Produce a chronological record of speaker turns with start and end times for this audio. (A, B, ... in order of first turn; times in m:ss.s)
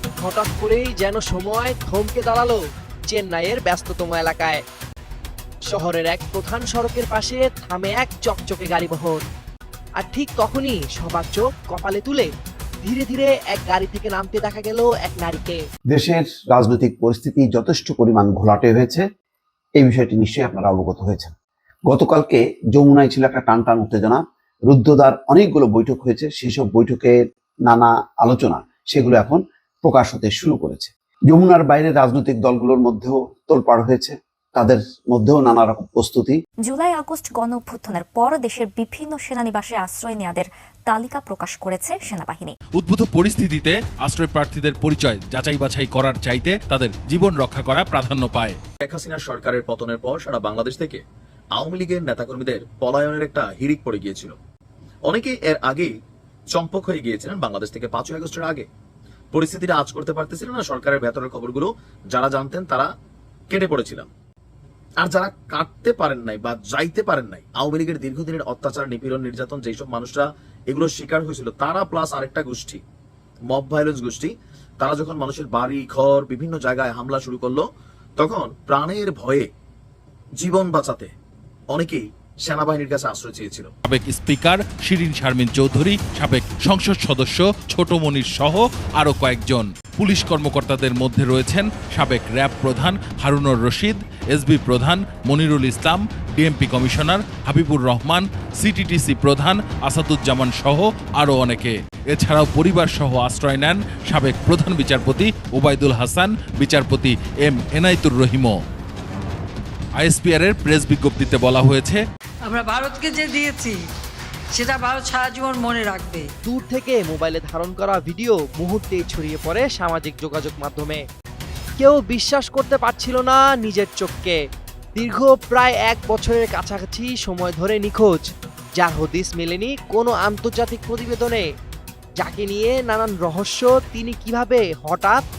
0:00.2-0:04.6 A
0:05.7-0:09.2 A
0:10.0-0:12.3 A
0:12.8-0:15.6 A
0:15.9-0:19.0 B
0:19.8-0:21.3 B
0:21.9-0:36.4 B
0:36.6-0:42.6 C
0:42.8-0:48.6 D
0:48.8-0:51.0 E
0:51.6-0:54.3 E
0:55.1-0:55.9 E
0:56.5-0:58.6 E
0:59.3-1:02.9 E
1:03.5-1:04.1 E
1:05.0-1:12.8 E
1:13.5-1:17.7 E
1:18.2-1:19.5 E
1:20.4-1:21.1 E
1:21.7-1:23.7 E
1:23.9-1:48.6 D
1:50.0-1:52.0 D
1:52.4-1:53.8 F
1:54.5-1:56.3 F
1:56.4-2:01.0 A
2:01.8-2:04.4 A
2:04.9-2:08.2 A
2:08.8-2:11.4 A
2:12.2-2:15.2 A